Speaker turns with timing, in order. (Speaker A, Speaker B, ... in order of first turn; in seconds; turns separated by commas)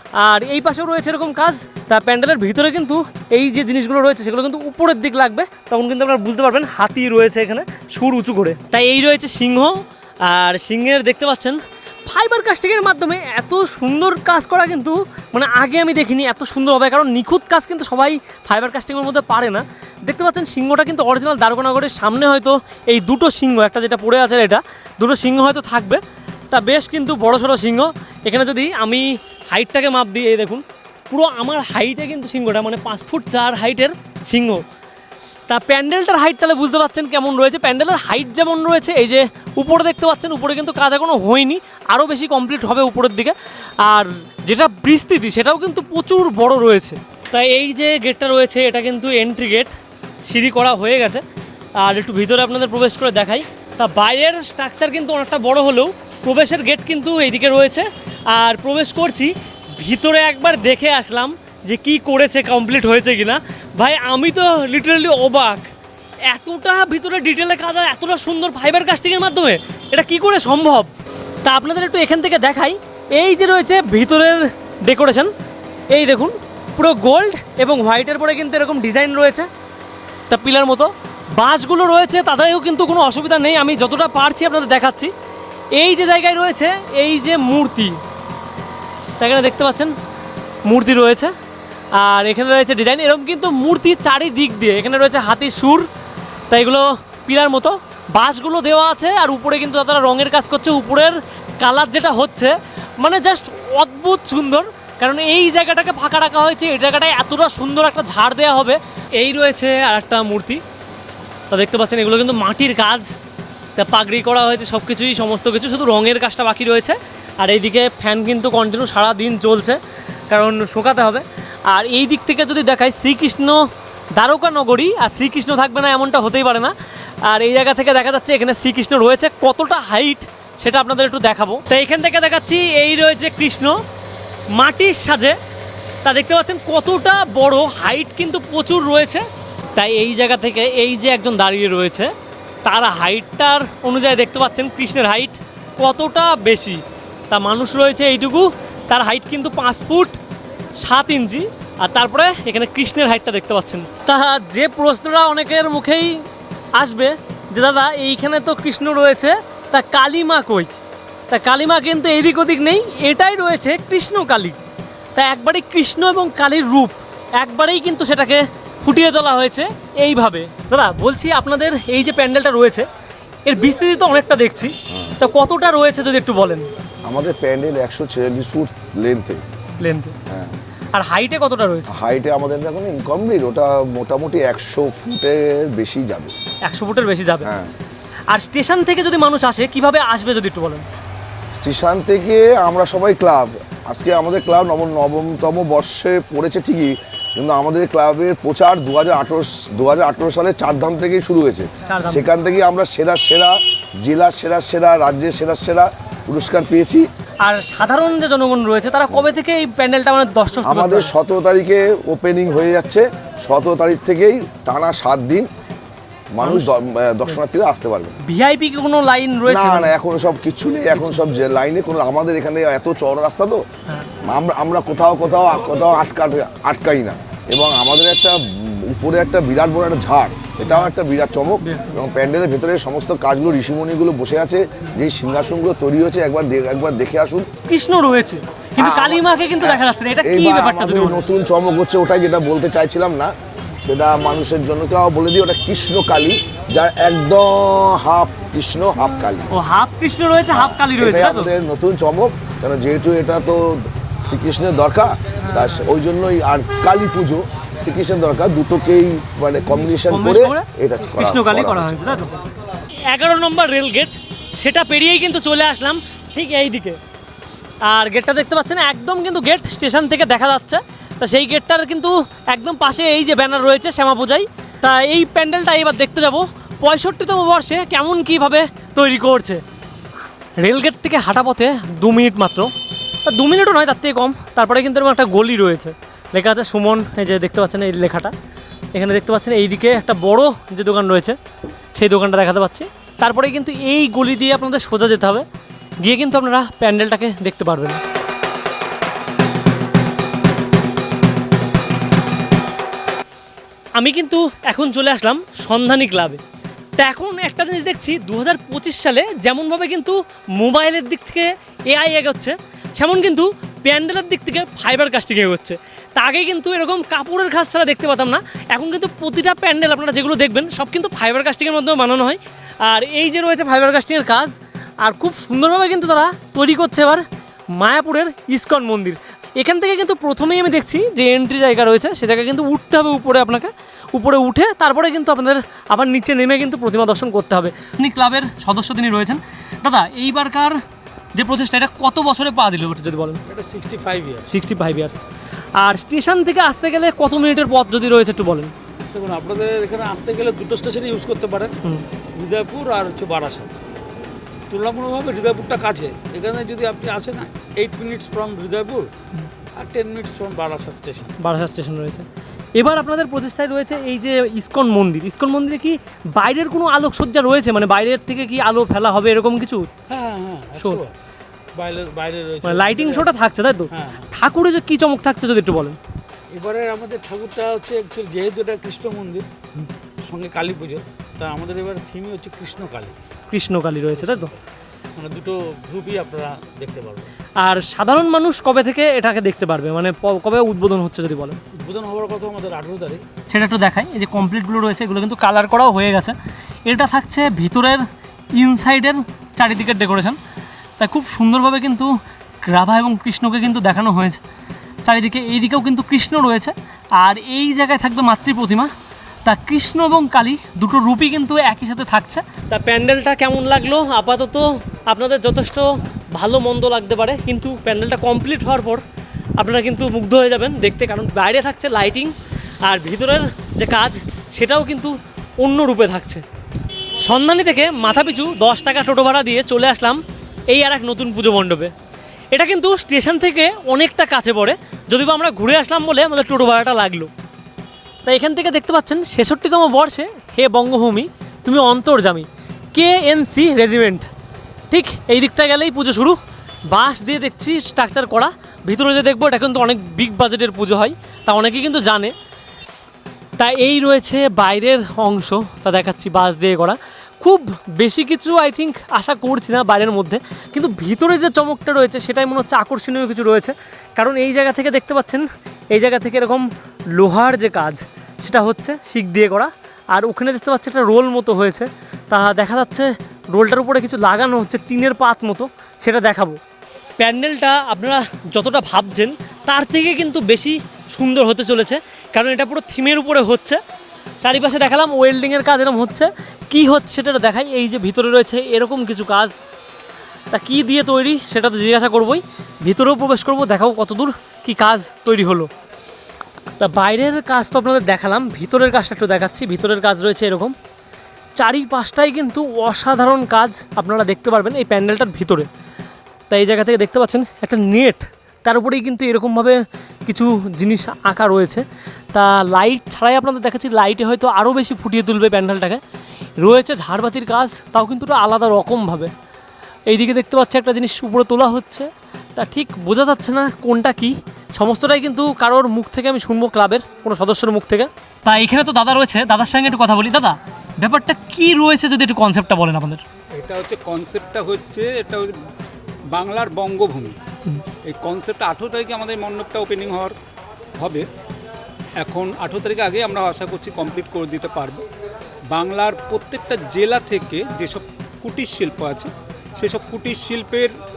Speaker A: 0.2-34.6, Speaker A: 35.5-49.7, Speaker A: 50.2-51.2, Speaker A: 51.8-65.7, Speaker A: 66.3-70.9, Speaker A: 71.4-75.3, Speaker A: 75.9-79.5, Speaker A: 80.3-85.1, Speaker A: 85.8-88.0, Speaker A: 89.2-89.9, Speaker A: 90.7-91.3, Speaker A: 91.9-95.9, Speaker A: 96.5-110.6, Speaker A: 111.5-113.1, Speaker A: 113.8-119.8, Speaker A: 120.3-123.6, Speaker A: 124.2-126.7, Speaker A: 127.2-133.8, Speaker A: 134.5-135.4, Speaker A: 136.0-139.2, Speaker A: 139.8-142.1, Speaker A: 142.6-150.2, Speaker A: 150.8-156.2, Speaker A: 156.8-160.7, Speaker A: 161.3-164.6, Speaker A: 165.2-172.9, Speaker A: 173.4-176.7, Speaker B: 174.9-175.2, Speaker B: 177.0-179.4, Speaker A: 179.8-180.2, Speaker B: 180.3-180.6, Speaker A: 180.9-181.9, Speaker B: 181.9-186.3, Speaker A: 186.7-187.5, Speaker B: 187.4-187.7, Speaker A: 188.3-190.8, Speaker B: 191.5-207.1, Speaker A: 201.8-202.3, Speaker A: 207.4-211.1, Speaker B: 210.6-215.5, Speaker B: 216.3-218.2, Speaker A: 216.4-216.7, Speaker A: 218.2-219.9, Speaker B: 219.4-223.6, Speaker B: 224.2-237.5, Speaker A: 231.6-231.9, Speaker A: 237.7-241.2, Speaker B: 238.8-243.3, Speaker B: 243.8-249.5, Speaker A: 249.5-251.5, Speaker B: 250.5-262.3, Speaker A: 255.4-255.8, Speaker A: 259.8-262.3, Speaker A: 263.1-267.0, Speaker A: 267.8-279.6, Speaker A: 280.6-282.7, Speaker A: 283.2-288.3, Speaker A: 288.9-291.4, Speaker A: 292.0-295.4, Speaker A: 296.0-298.0, Speaker A: 303.9-306.4, Speaker A: 307.0-340.8, Speaker A: 341.4-343.4, Speaker C: 343.5-344.6, Speaker A: 344.5-345.2, Speaker A: 345.8-348.7, Speaker C: 349.1-351.8, Speaker C: 352.4-353.8, Speaker C: 354.7-359.1, Speaker C: 359.8-361.3, Speaker A: 361.4-369.9, Speaker C: 370.1-371.1, Speaker A: 370.8-371.0, Speaker C: 371.8-373.3, Speaker A: 372.6-376.0, Speaker C: 373.9-374.3, Speaker C: 376.5-379.4, Speaker C: 380.2-383.1, Speaker A: 383.5-384.5, Speaker C: 384.1-384.6, Speaker C: 385.2-387.3, Speaker A: 387.6-391.6, Speaker C: 391.8-393.2, Speaker A: 393.5-396.4, Speaker A: 396.9-398.0, Speaker A: 398.6-400.4, Speaker A: 401.0-404.4, Speaker A: 405.0-408.9, Speaker A: 409.4-419.0, Speaker A: 419.6-422.3, Speaker A: 422.8-426.4, Speaker A: 427.2-431.9, Speaker A: 432.5-437.3, Speaker A: 438.2-444.3, Speaker A: 444.9-452.3, Speaker A: 453.6-476.6, Speaker A: 477.2-483.8, Speaker A: 484.4-489.5, Speaker A: 490.5-495.7, Speaker A: 496.8-500.7, Speaker A: 501.6-505.7, Speaker A: 506.5-516.0, Speaker A: 516.6-519.3, Speaker A: 520.1-533.2, Speaker D: 533.5-535.5, Speaker D: 536.3-537.4, Speaker D: 538.0-540.4, Speaker D: 541.0-541.3, Speaker D: 542.2-545.0, Speaker D: 545.7-550.9